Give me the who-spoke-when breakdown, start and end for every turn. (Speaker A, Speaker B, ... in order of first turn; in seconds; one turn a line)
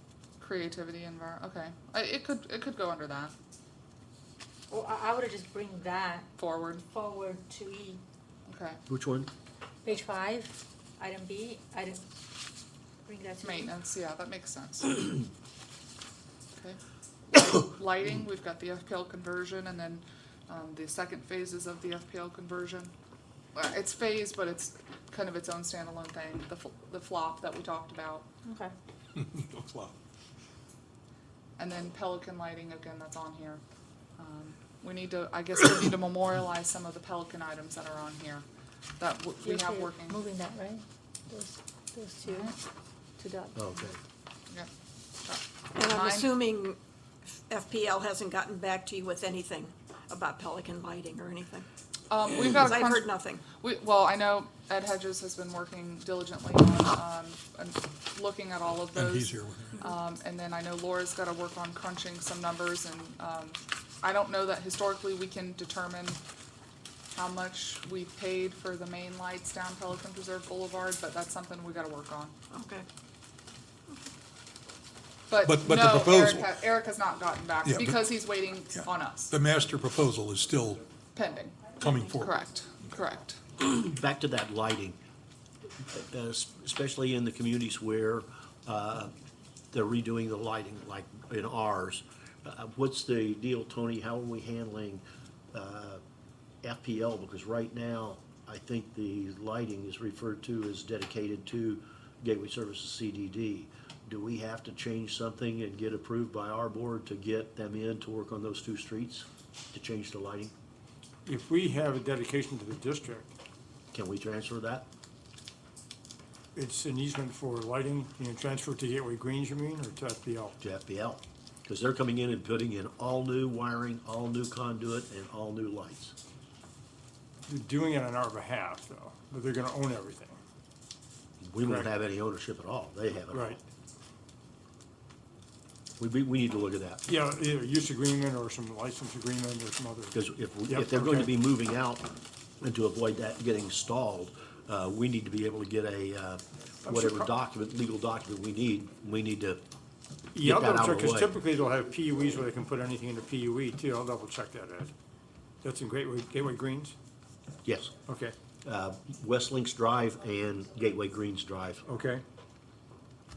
Speaker A: 0.4-3.3
Speaker B: 4.7-6.3
Speaker A: 6.4-6.8
Speaker B: 6.8-8.0
Speaker A: 8.4-8.8
Speaker C: 8.9-9.3
Speaker B: 9.8-12.1
Speaker B: 13.0-13.7
Speaker A: 13.4-15.2
Speaker A: 16.6-22.9
Speaker A: 23.5-28.2
Speaker B: 28.4-28.7
Speaker D: 29.1-29.9
Speaker A: 31.6-33.6
Speaker A: 34.2-38.4
Speaker A: 39.0-40.2
Speaker B: 39.4-42.6
Speaker A: 42.2-42.5
Speaker B: 43.2-43.7
Speaker C: 43.5-44.0
Speaker A: 45.2-46.3
Speaker E: 45.7-51.7
Speaker A: 52.1-66.2
Speaker E: 52.4-53.4
Speaker D: 58.9-59.8
Speaker A: 67.1-72.3
Speaker E: 72.5-72.8
Speaker A: 75.3-79.4
Speaker D: 75.3-76.5
Speaker D: 77.6-78.2
Speaker D: 78.7-80.8
Speaker A: 81.1-83.4
Speaker D: 81.8-82.3
Speaker C: 83.8-85.0
Speaker C: 85.9-89.1
Speaker C: 89.7-96.0
Speaker C: 96.6-110.5
Speaker F: 111.2-113.3
Speaker C: 113.9-114.9
Speaker F: 116.5-120.5
Speaker C: 120.6-126.1
Speaker F: 127.5-130.4
Speaker C: 131.4-133.6
Speaker F: 133.3-133.6
Speaker C: 136.0-137.0
Speaker F: 137.1-140.2
Speaker C: 140.1-149.6
Speaker F: 140.7-141.3
Speaker F: 146.9-147.2
Speaker F: 150.3-154.9
Speaker C: 150.4-151.3
Speaker F: 155.6-156.9
Speaker C: 157.6-157.9
Speaker F: 158.1-158.3
Speaker C: 158.6-161.8
Speaker F: 161.8-162.2